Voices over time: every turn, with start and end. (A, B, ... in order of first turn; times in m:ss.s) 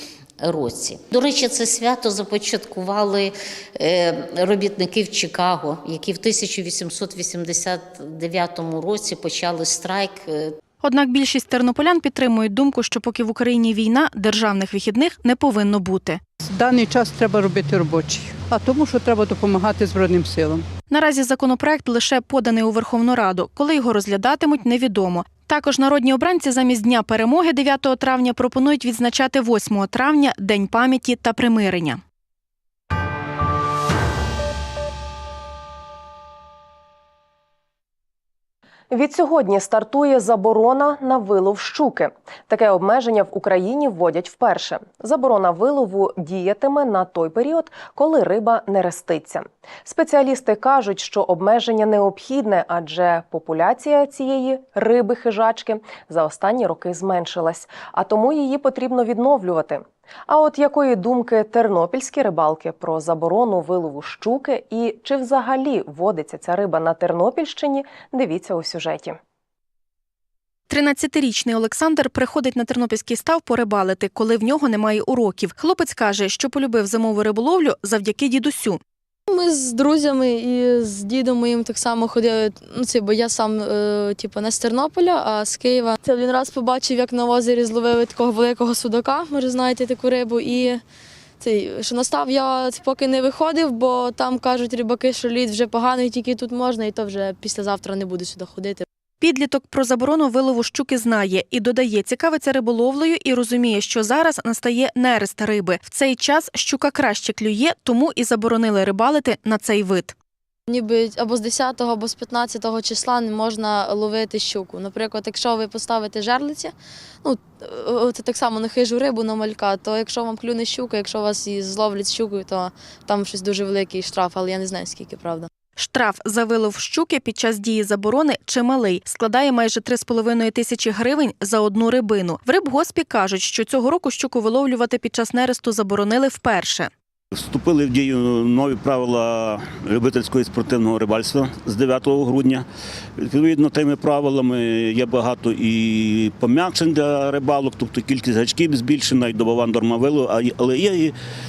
0:00.4-0:10.6 A
0:10.8-0:16.2 B
0:16.5-0:20.6 C
0:20.9-0:32.0 B
0:38.9-1:09.2 D
1:10.7-1:18.8 B
1:19.3-1:30.8 E
1:31.4-1:38.8 E
1:39.2-1:50.2 B
1:50.7-2:05.5 E
2:05.8-2:16.9 B
2:17.3-2:22.7 F
2:23.2-2:31.2 F